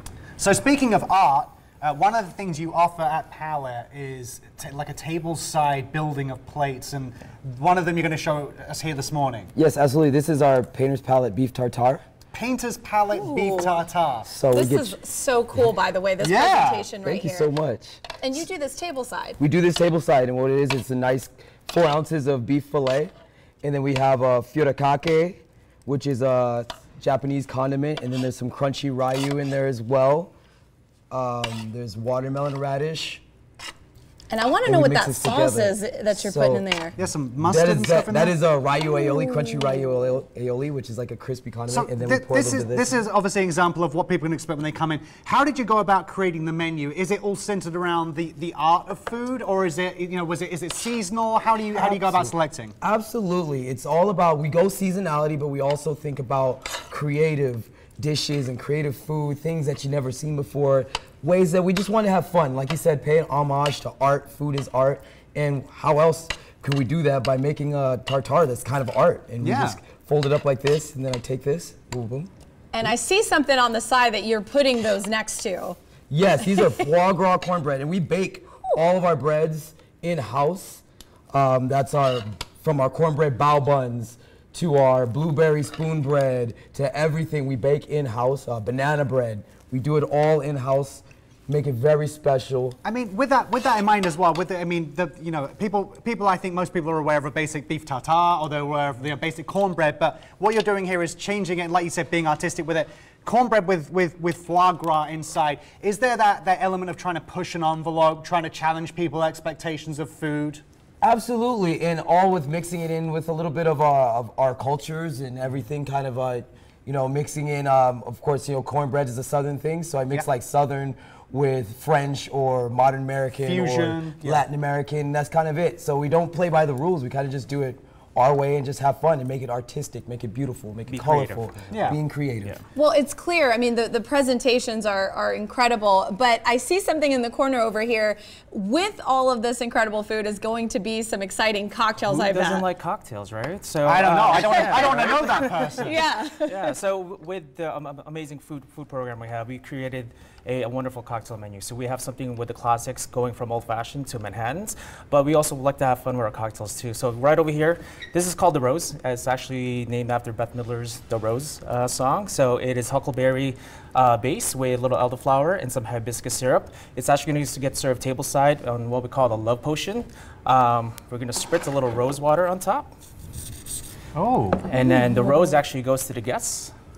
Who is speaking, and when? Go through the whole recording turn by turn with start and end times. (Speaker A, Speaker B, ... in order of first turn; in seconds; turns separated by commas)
Speaker A: 0.4-9.5, Speaker B: 9.6-12.0, Speaker A: 12.3-14.3, Speaker C: 13.1-13.8, Speaker B: 14.3-15.0, Speaker C: 14.5-17.5, Speaker A: 16.2-16.9, Speaker B: 17.0-18.0, Speaker C: 18.2-19.4, Speaker B: 19.4-30.3, Speaker B: 31.1-33.2, Speaker C: 34.3-37.0, Speaker B: 34.6-36.7, Speaker A: 37.0-38.4, Speaker B: 37.4-42.9, Speaker A: 41.7-52.8, Speaker B: 51.8-72.3, Speaker A: 69.4-69.8, Speaker C: 72.7-75.8, Speaker B: 76.1-92.8, Speaker A: 92.8-110.6, Speaker B: 111.0-132.6, Speaker A: 123.4-124.4, Speaker D: 130.9-132.6, Speaker A: 131.7-132.0, Speaker C: 132.8-142.7, Speaker D: 142.0-172.9, Speaker A: 143.8-146.0, Speaker C: 144.3-144.9, Speaker C: 145.8-146.8, Speaker A: 174.2-174.7, Speaker D: 174.7-176.7, Speaker C: 174.8-175.5